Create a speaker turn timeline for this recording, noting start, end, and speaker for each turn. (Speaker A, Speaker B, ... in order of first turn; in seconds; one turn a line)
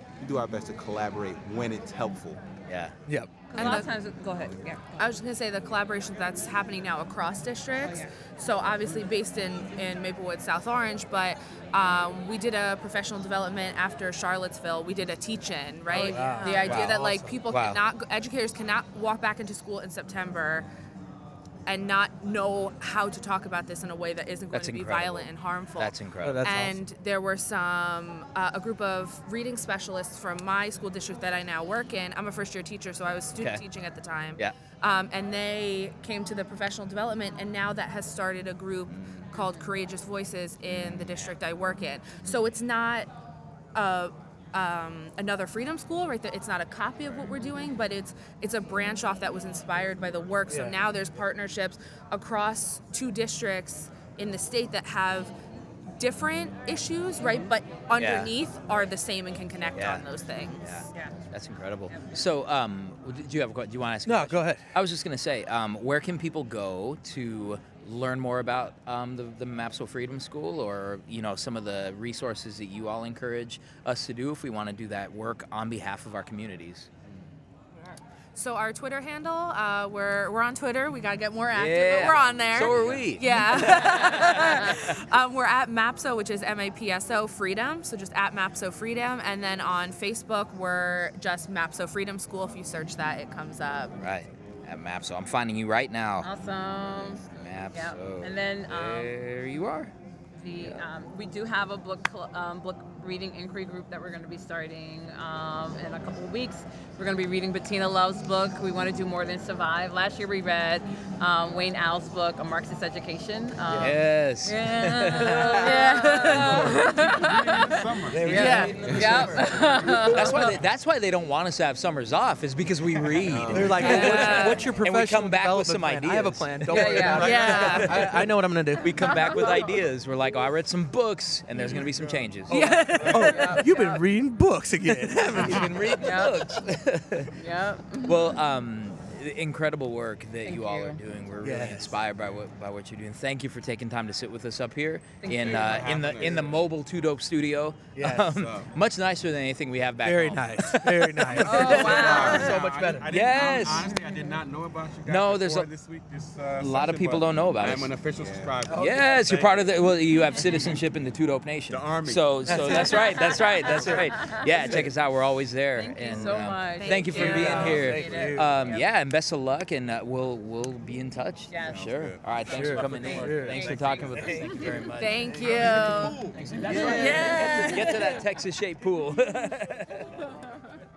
Speaker A: 0.2-2.4
Speaker B: 2.7-3.0
Speaker C: 3.1-3.5
Speaker D: 3.5-3.9
Speaker E: 3.5-5.1
Speaker D: 5.0-20.7
Speaker E: 7.8-8.1
Speaker E: 15.9-16.8
Speaker C: 15.9-17.2
Speaker B: 16.6-17.8
Speaker D: 21.7-43.1
Speaker B: 24.5-26.4
Speaker C: 26.2-26.8
Speaker B: 40.7-41.3
Speaker D: 43.7-55.3
Speaker D: 56.0-60.8
Speaker B: 58.0-58.3
Speaker B: 59.8-60.0
Speaker B: 60.5-76.9
Speaker C: 64.1-64.6
Speaker D: 78.3-94.0
Speaker B: 81.5-85.0
Speaker B: 94.0-96.3
Speaker E: 96.2-99.2
Speaker B: 97.3-99.9
Speaker E: 100.4-120.6
Speaker B: 113.7-116.9
Speaker F: 116.2-120.0
Speaker C: 118.1-119.5
Speaker B: 118.1-119.5
Speaker D: 118.4-118.7
Speaker B: 120.0-128.2
Speaker A: 123.3-123.8
Speaker C: 123.5-129.4
Speaker E: 123.8-124.6
Speaker E: 126.7-128.0
Speaker D: 127.1-128.2
Speaker B: 128.8-132.6
Speaker E: 128.9-129.7
Speaker C: 132.5-135.8
Speaker E: 132.5-134.0
Speaker F: 133.0-133.2
Speaker B: 134.8-137.3
Speaker E: 136.0-136.4
Speaker E: 137.3-138.4
Speaker B: 138.1-152.5
Speaker E: 140.5-141.0
Speaker C: 141.4-141.9
Speaker E: 145.2-145.9
Speaker F: 145.3-146.6
Speaker C: 148.0-148.2
Speaker F: 148.2-148.7
Speaker C: 150.0-153.1
Speaker F: 151.3-159.7
Speaker E: 151.4-152.5
Speaker B: 153.1-154.0
Speaker E: 153.8-154.3
Speaker B: 155.1-155.7
Speaker B: 156.6-157.9
Speaker A: 158.2-158.5
Speaker B: 158.7-180.2
Speaker C: 158.7-159.4
Speaker F: 161.7-164.9
Speaker C: 162.5-162.9
Speaker E: 162.7-164.9
Speaker E: 165.8-168.9
Speaker D: 166.8-168.3
Speaker C: 167.2-168.7
Speaker E: 171.5-174.7
Speaker F: 171.6-177.4
Speaker C: 172.5-173.7
Speaker D: 175.0-176.3
Speaker E: 176.6-178.2
Speaker D: 177.1-177.7